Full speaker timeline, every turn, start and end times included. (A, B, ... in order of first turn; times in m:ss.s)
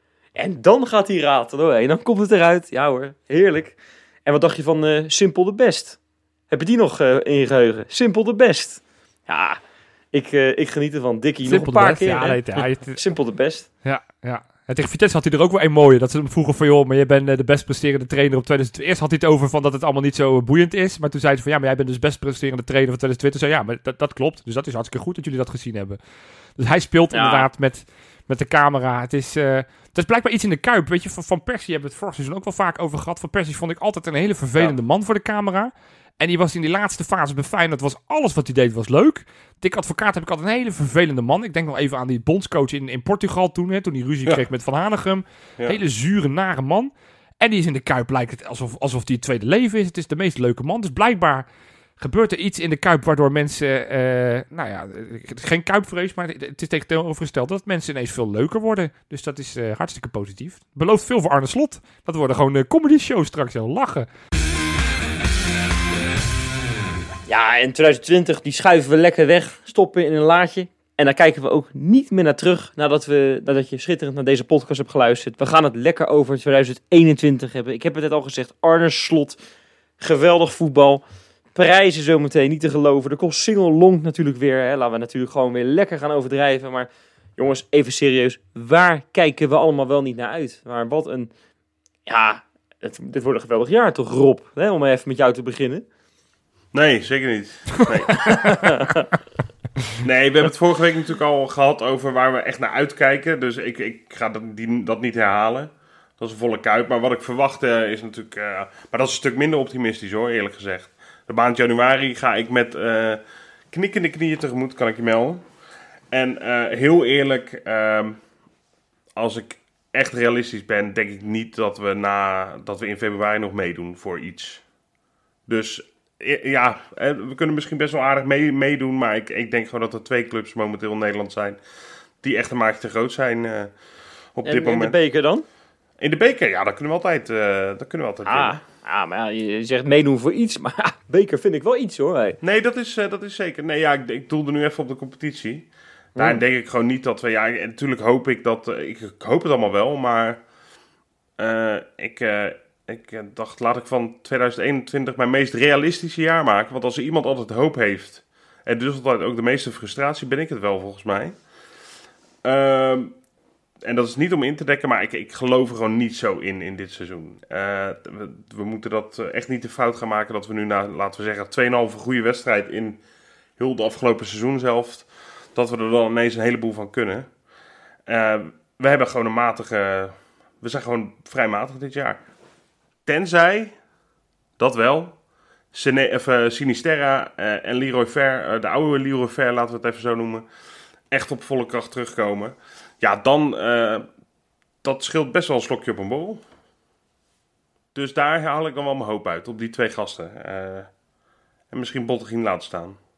0:00.4-0:06.0 A
0:06.5-0:09.6 A
0:10.1-0:13.7 A
0:11.4-0:13.0 B
0:13.8-0:26.0 B
0:26.6-0:51.4 B
0:27.1-0:27.5 A
0:52.0-1:04.1 B
1:07.3-1:19.4 A
1:20.0-1:21.0 A
1:21.5-1:31.3 A
1:32.0-1:35.8 A
1:36.7-1:38.9 C
1:38.4-1:39.0 A
1:40.0-1:55.4 C
1:56.1-1:58.2 C
1:59.2-2:04.6 C
2:05.5-2:11.6 C
2:12.2-2:13.7 C
2:14.4-2:15.0 C
2:14.4-2:15.4 A
2:16.0-2:18.6 C
2:18.2-2:22.4 A
2:22.4-2:30.4 C
2:26.2-2:26.4 A
2:31.4-2:41.3 C
2:42.4-2:43.1 C
2:43.8-2:53.0 C
2:53.6-2:57.2 C
2:58.1-3:02.2 C
3:03.0-3:03.7 C
3:04.6-3:05.1 C
3:05.7-3:10.4 C
3:11.1-3:14.0 C
3:14.8-3:16.4 C
3:17.9-3:20.9 C
3:21.7-3:23.0 C